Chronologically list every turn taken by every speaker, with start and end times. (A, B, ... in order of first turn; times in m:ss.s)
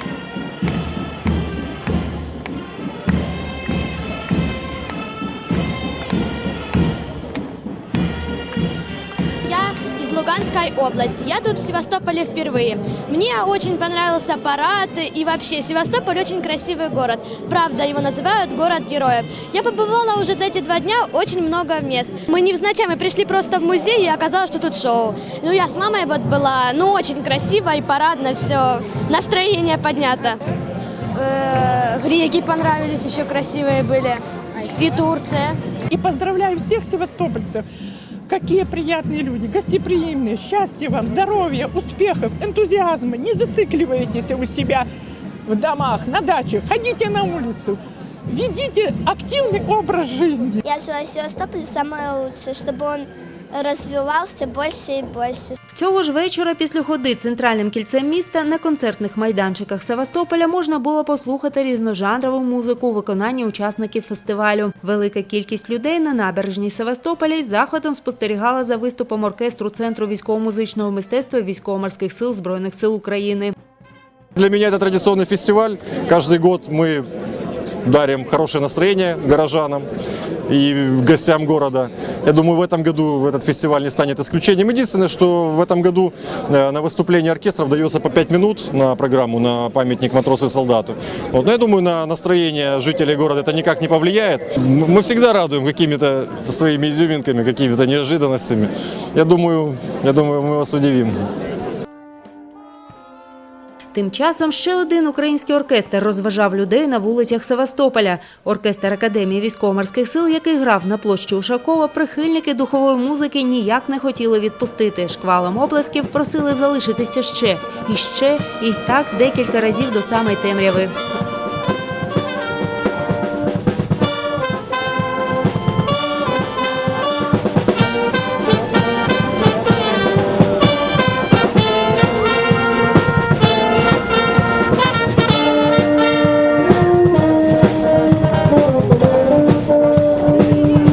0:09.4-0:30.4 A
0:31.1-0:35.6 A
0:36.0-0:37.6 B
0:38.3-0:44.8 B
0:45.5-0:47.7 B
0:48.3-0:50.6 B
0:50.6-0:53.0 C
0:53.6-0:55.5 C
0:55.7-1:13.5 D
1:14.4-1:17.0 E
1:17.8-1:19.8 E
1:20.5-1:41.1 E
1:43.9-2:00.9 D